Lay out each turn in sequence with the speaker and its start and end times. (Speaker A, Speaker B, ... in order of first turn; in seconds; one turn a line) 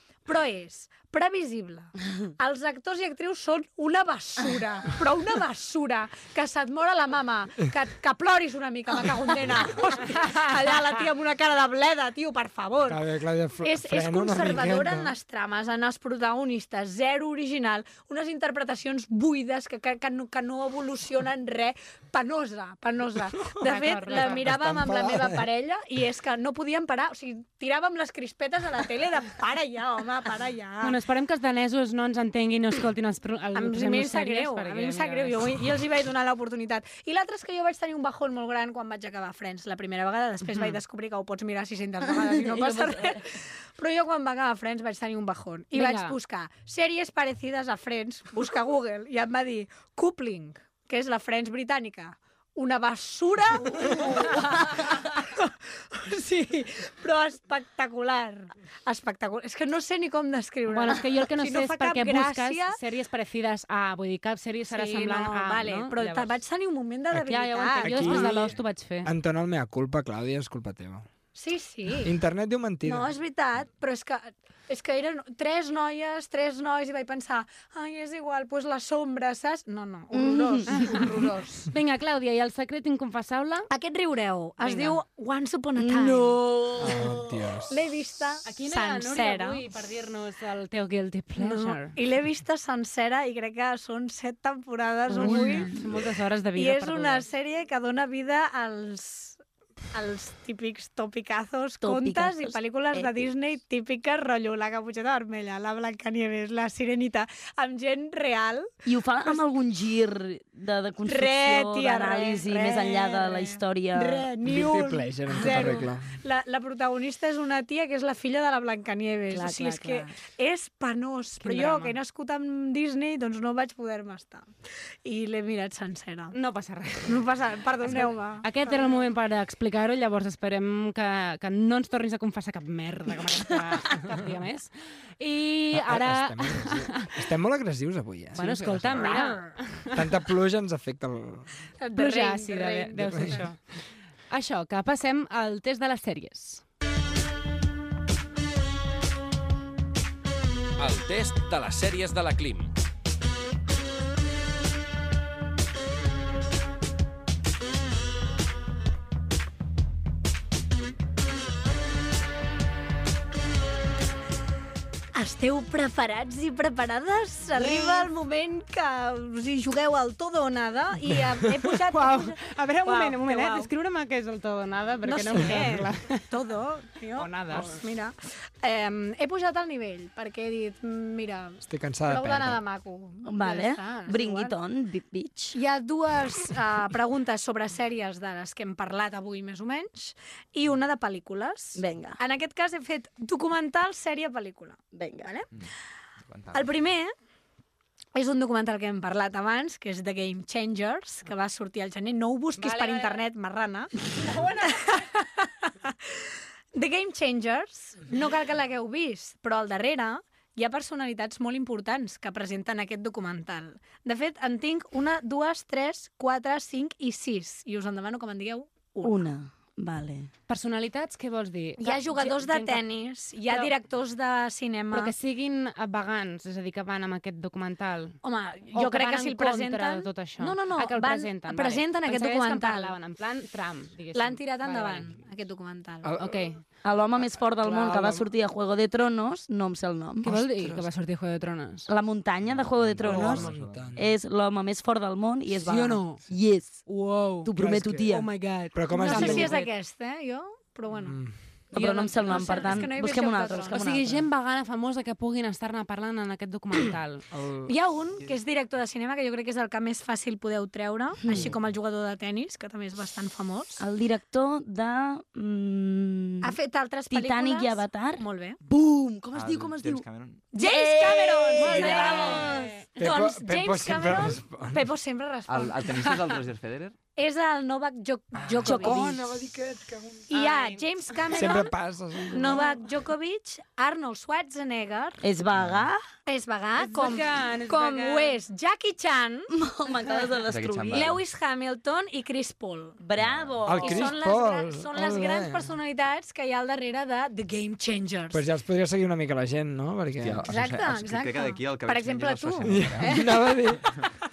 Speaker A: 0.3-13.0
Speaker B: 12.9-15.1
Speaker A: 13.6-31.0
Speaker C: 23.6-24.5
Speaker B: 24.3-25.4
Speaker C: 30.8-35.4
Speaker A: 33.5-62.8
Speaker C: 40.5-40.8
Speaker D: 42.1-43.3
Speaker C: 45.8-46.1
Speaker C: 60.7-66.3
Speaker A: 64.7-68.5
Speaker B: 67.1-71.1
Speaker C: 67.3-69.1
Speaker A: 71.3-72.1
Speaker B: 72.0-73.1
Speaker A: 72.8-81.7
Speaker D: 80.1-81.2
Speaker C: 81.7-83.7
Speaker A: 83.7-86.4
Speaker C: 84.6-85.0
Speaker D: 85.8-87.3
Speaker B: 86.8-87.8
Speaker A: 87.7-89.7
Speaker C: 88.5-92.0
Speaker A: 91.4-95.7
Speaker D: 95.1-95.7
Speaker C: 95.2-97.3
Speaker A: 96.5-108.7
Speaker D: 101.8-103.2
Speaker D: 108.9-114.3
Speaker A: 111.1-126.3
Speaker B: 114.4-116.2
Speaker D: 119.3-120.1
Speaker C: 121.4-122.0
Speaker C: 126.3-127.3
Speaker A: 127.0-129.1
Speaker C: 127.9-137.1
Speaker B: 135.7-139.1
Speaker C: 138.3-140.0
Speaker A: 138.9-139.5
Speaker B: 139.9-141.5
Speaker A: 141.8-143.5
Speaker C: 141.9-143.7
Speaker B: 143.0-143.5
Speaker C: 144.3-146.6
Speaker E: 150.8-152.7
Speaker A: 165.1-173.7
Speaker C: 171.9-176.2
Speaker A: 175.1-184.6
Speaker C: 177.2-177.8
Speaker B: 181.6-182.6
Speaker D: 183.3-185.6
Speaker A: 185.6-195.5
Speaker D: 191.8-192.2
Speaker D: 194.9-195.3
Speaker F: 196.3-196.7
Speaker A: 196.5-197.1
Speaker A: 198.2-219.3
Speaker C: 202.6-203.2
Speaker D: 219.0-220.3
Speaker C: 220.5-222.8
Speaker A: 221.8-225.1
Speaker C: 223.5-223.7
Speaker C: 224.9-228.2
Speaker A: 228.2-232.9
Speaker C: 228.7-235.1
Speaker A: 234.1-236.2
Speaker B: 236.0-236.5
Speaker C: 236.2-236.6
Speaker D: 236.8-240.3
Speaker B: 237.2-238.3
Speaker C: 240.2-241.9
Speaker B: 240.3-240.8
Speaker D: 241.9-246.9
Speaker F: 242.4-243.9
Speaker B: 243.0-244.1
Speaker C: 245.6-246.2
Speaker C: 246.9-247.5
Speaker D: 247.4-248.3
Speaker B: 247.6-248.1
Speaker C: 248.1-249.7
Speaker B: 248.7-249.6
Speaker A: 248.9-251.2
Speaker B: 251.1-251.4
Speaker D: 251.7-254.2
Speaker C: 251.7-253.0
Speaker A: 252.2-253.8
Speaker C: 253.7-257.2
Speaker B: 257.3-257.7
Speaker A: 257.7-263.8
Speaker D: 261.2-261.5
Speaker D: 263.8-266.6
Speaker A: 266.4-268.6
Speaker D: 267.1-272.7
Speaker F: 269.3-270.4
Speaker A: 270.5-276.3
Speaker C: 271.6-272.8
Speaker B: 273.0-274.9
Speaker F: 275.5-276.9
Speaker A: 277.2-279.3
Speaker B: 278.4-280.3
Speaker D: 278.6-279.2
Speaker A: 280.3-281.7
Speaker C: 280.3-280.9
Speaker B: 281.3-282.8
Speaker A: 282.3-285.2
Speaker D: 285.2-286.0
Speaker F: 285.6-285.9
Speaker A: 286.3-289.5
Speaker C: 286.8-288.4
Speaker D: 289.6-291.1
Speaker A: 290.0-293.0
Speaker F: 290.5-291.2
Speaker D: 293.0-294.1
Speaker F: 293.2-293.8
Speaker B: 293.7-295.8
Speaker A: 293.8-298.4
Speaker B: 298.3-300.5
Speaker F: 300.2-303.3
Speaker A: 300.4-304.0
Speaker B: 302.7-304.0